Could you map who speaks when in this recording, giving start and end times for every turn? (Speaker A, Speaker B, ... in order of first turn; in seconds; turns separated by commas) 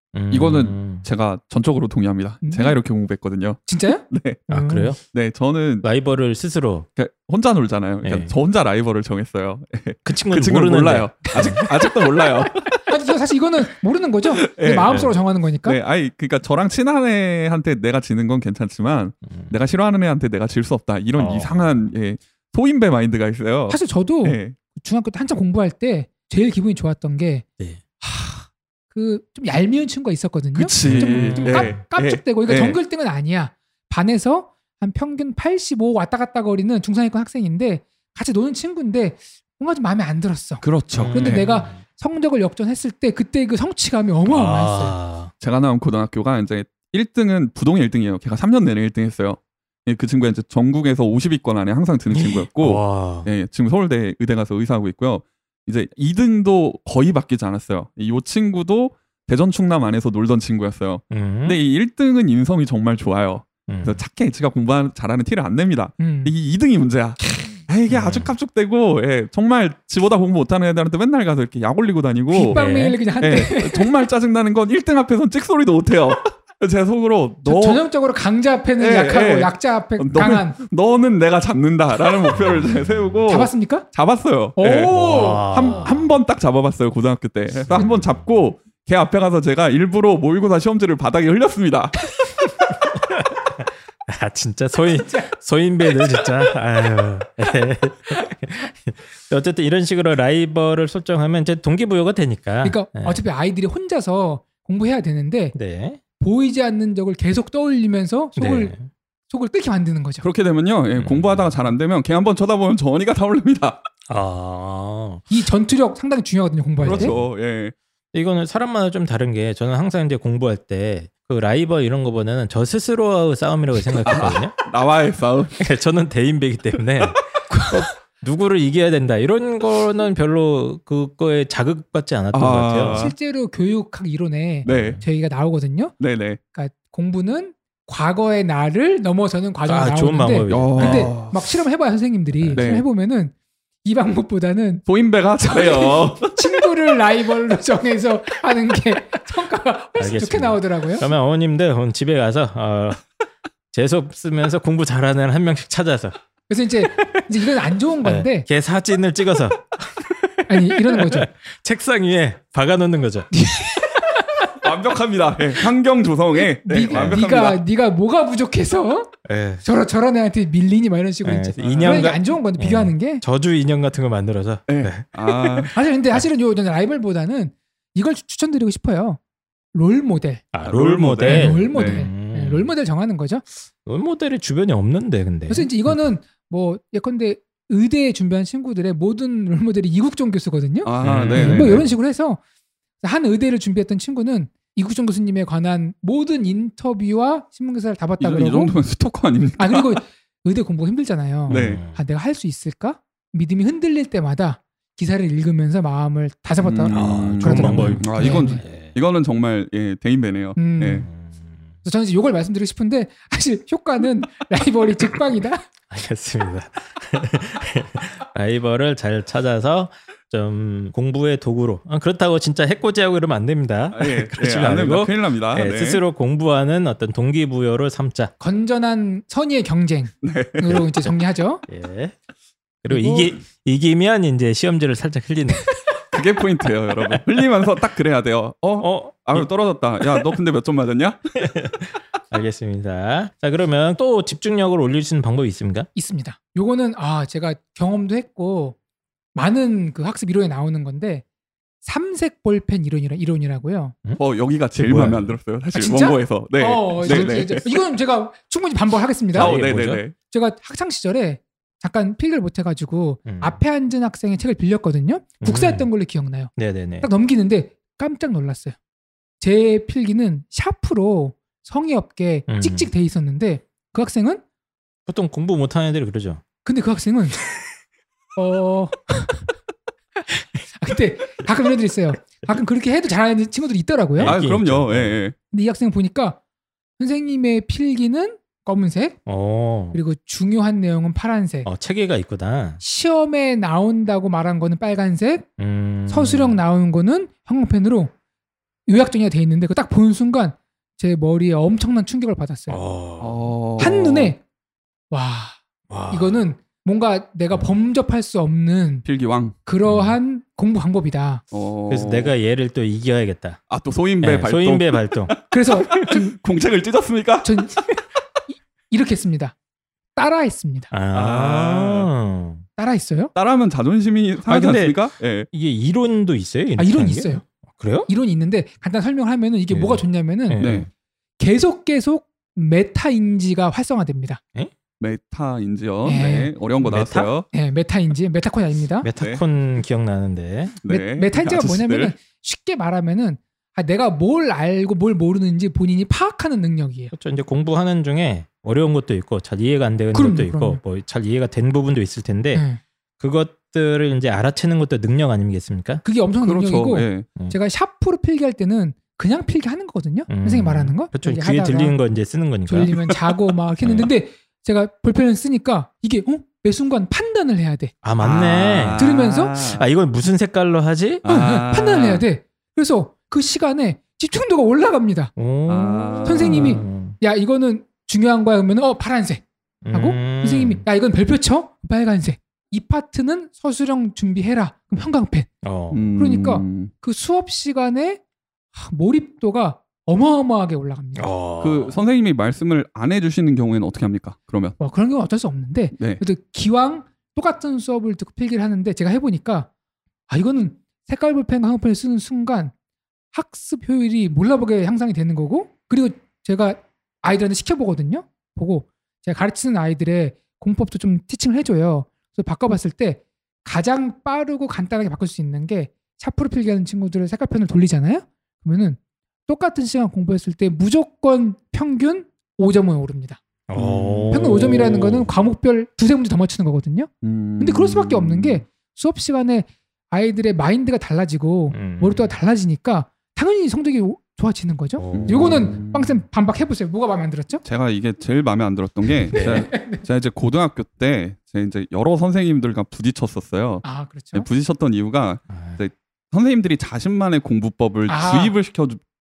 Speaker A: 0.1-1.1, Speaker B: 0.3-4.5, Speaker C: 2.4-2.8, Speaker C: 3.7-4.9, Speaker A: 4.5-5.0, Speaker B: 5.0-5.8, Speaker A: 5.8-6.9, Speaker B: 7.0-12.8, Speaker A: 8.0-8.3, Speaker A: 10.1-11.7, Speaker C: 11.3-11.7, Speaker C: 12.9-15.8, Speaker B: 14.4-15.0, Speaker B: 15.6-24.6, Speaker A: 19.3-19.5, Speaker A: 21.2-21.8, Speaker C: 23.7-27.4, Speaker C: 28.0-45.0, Speaker B: 30.6-32.8, Speaker A: 30.9-31.8, Speaker B: 40.6-41.4, Speaker A: 40.9-41.8, Speaker A: 44.3-45.3, Speaker B: 45.4-72.6, Speaker A: 52.1-53.3, Speaker A: 61.1-61.6, Speaker A: 63.7-64.0, Speaker C: 66.0-66.3, Speaker A: 67.9-68.3, Speaker C: 72.3-74.0, Speaker A: 72.5-73.0, Speaker B: 73.2-77.8, Speaker C: 77.5-80.6, Speaker B: 78.8-92.5, Speaker A: 82.3-82.9, Speaker C: 83.3-83.9, Speaker C: 84.6-85.8, Speaker A: 84.9-86.1, Speaker A: 87.7-88.3, Speaker A: 92.7-103.2, Speaker C: 95.0-95.3, Speaker C: 102.6-105.5, Speaker A: 105.5-106.0, Speaker C: 106.2-108.7, Speaker A: 108.4-108.8, Speaker C: 109.3-110.2, Speaker B: 110.2-113.8, Speaker A: 111.0-111.5, Speaker A: 114.1-115.2, Speaker C: 115.3-117.2, Speaker A: 116.8-117.2, Speaker B: 116.8-117.7, Speaker A: 118.1-124.6, Speaker B: 124.0-125.6, Speaker A: 125.6-133.0, Speaker B: 132.3-133.2, Speaker C: 132.9-135.9, Speaker A: 134.7-135.0, Speaker B: 134.7-135.0, Speaker B: 136.0-136.4, Speaker C: 136.5-144.8, Speaker A: 139.7-141.1, Speaker B: 140.5-141.4, Speaker A: 142.4-142.6, Speaker B: 142.6-142.9, Speaker B: 144.9-146.5, Speaker C: 145.4-151.1, Speaker A: 150.0-153.1, Speaker A: 153.7-156.2, Speaker C: 156.5-158.5, Speaker A: 156.9-157.3, Speaker A: 158.0-163.3, Speaker C: 160.5-161.3, Speaker C: 163.3-164.5, Speaker B: 164.6-167.6, Speaker C: 166.6-169.1, Speaker A: 166.9-167.2, Speaker A: 169.2-169.6, Speaker C: 169.6-173.2, Speaker A: 171.2-176.2, Speaker B: 171.6-172.2, Speaker B: 174.7-175.7, Speaker C: 175.7-179.2, Speaker C: 179.7-180.4, Speaker A: 180.5-182.7, Speaker B: 180.7-182.1, Speaker C: 181.2-183.4, Speaker A: 183.8-186.0, Speaker C: 185.5-192.4, Speaker B: 190.8-191.9, Speaker A: 191.0-191.9, Speaker C: 193.0-198.7, Speaker B: 198.2-200.0, Speaker C: 199.6-208.6, Speaker A: 201.5-202.0, Speaker B: 201.5-201.8, Speaker B: 206.6-211.1, Speaker A: 206.9-209.0, Speaker C: 210.6-211.1, Speaker A: 211.1-211.7, Speaker C: 211.8-215.6, Speaker A: 215.9-228.3, Speaker B: 223.9-226.0, Speaker C: 228.4-231.6, Speaker B: 230.2-230.8, Speaker A: 231.7-232.2, Speaker A: 232.8-235.7, Speaker B: 232.9-233.3, Speaker B: 236.1-241.2, Speaker A: 238.8-239.5, Speaker A: 240.0-240.3, Speaker A: 241.4-245.9, Speaker C: 245.9-248.8, Speaker C: 249.3-251.2, Speaker C: 251.8-253.9, Speaker B: 254.2-257.8, Speaker A: 254.8-255.4, Speaker C: 255.8-259.6, Speaker A: 259.3-260.0, Speaker B: 259.4-260.1, Speaker C: 260.3-268.8, Speaker A: 263.3-263.6, Speaker A: 265.4-265.9, Speaker A: 266.6-267.1, Speaker C: 269.4-274.4, Speaker A: 272.5-272.9, Speaker A: 275.1-276.4, Speaker C: 276.6-277.4, Speaker C: 278.4-279.5, Speaker C: 280.7-284.4, Speaker A: 284.2-285.2, Speaker B: 284.2-285.4, Speaker C: 285.5-286.4, Speaker C: 287.0-289.2, Speaker A: 289.3-290.0, Speaker C: 289.9-291.7, Speaker A: 291.6-292.8, Speaker C: 292.8-295.5, Speaker A: 295.6-296.6, Speaker C: 296.1-298.1, Speaker C: 298.9-302.8, Speaker A: 302.7-304.0, Speaker B: 303.2-304.3, Speaker C: 303.8-304.4, Speaker C: 305.1-305.6, Speaker A: 305.9-306.4, Speaker C: 306.1-309.1, Speaker A: 307.5-307.8, Speaker B: 309.1-309.6, Speaker C: 309.7-311.4, Speaker A: 309.9-310.2, Speaker B: 311.5-312.3, Speaker A: 311.9-313.6, Speaker B: 313.7-317.5, Speaker A: 314.2-315.3, Speaker C: 315.5-316.3, Speaker C: 317.4-317.9, Speaker C: 318.5-319.6, Speaker C: 320.2-320.9, Speaker A: 320.9-322.6, Speaker B: 321.1-322.1, Speaker C: 322.8-323.3, Speaker B: 323.4-325.5, Speaker A: 324.5-328.1, Speaker C: 326.8-327.4, Speaker C: 328.1-330.6, Speaker A: 329.7-330.9, Speaker B: 330.6-330.9, Speaker C: 331.4-334.4, Speaker B: 335.0-337.5, Speaker C: 336.1-336.5, Speaker A: 336.8-337.3, Speaker C: 337.5-339.1, Speaker A: 339.0-340.8, Speaker B: 339.2-339.4, Speaker B: 340.8-342.1, Speaker C: 340.9-347.1, Speaker A: 347.1-352.6, Speaker C: 350.1-350.8, Speaker C: 352.5-352.8, Speaker A: 353.2-356.0, Speaker C: 356.0-362.0, Speaker B: 356.4-357.3, Speaker A: 360.3-362.9, Speaker C: 362.7-367.9, Speaker A: 363.8-364.1, Speaker A: 368.0-371.3, Speaker B: 368.2-369.8, Speaker C: 368.9-369.6, Speaker B: 371.2-372.2, Speaker C: 371.3-375.3, Speaker A: 375.4-377.2, Speaker B: 375.7-376.8, Speaker C: 376.2-385.5, Speaker A: 379.8-380.8, Speaker A: 385.6-386.2, Speaker B: 385.9-386.9, Speaker C: 386.2-388.2, Speaker C: 388.7-391.3, Speaker A: 391.2-392.0, Speaker B: 391.6-394.8, Speaker C: 394.8-399.7, Speaker B: 396.0-396.2, Speaker C: 400.3-402.7, Speaker C: 403.3-423.4, Speaker A: 423.7-425.3, Speaker B: 423.8-425.2, Speaker C: 424.3-427.1, Speaker B: 427.2-428.6, Speaker C: 427.6-437.6, Speaker A: 431.7-432.3, Speaker A: 435.0-435.8, Speaker B: 435.1-436.2, Speaker B: 437.6-449.0, Speaker C: 439.3-440.0, Speaker A: 439.3-439.7, Speaker C: 443.8-444.5, Speaker A: 445.5-445.8, Speaker C: 448.1-448.6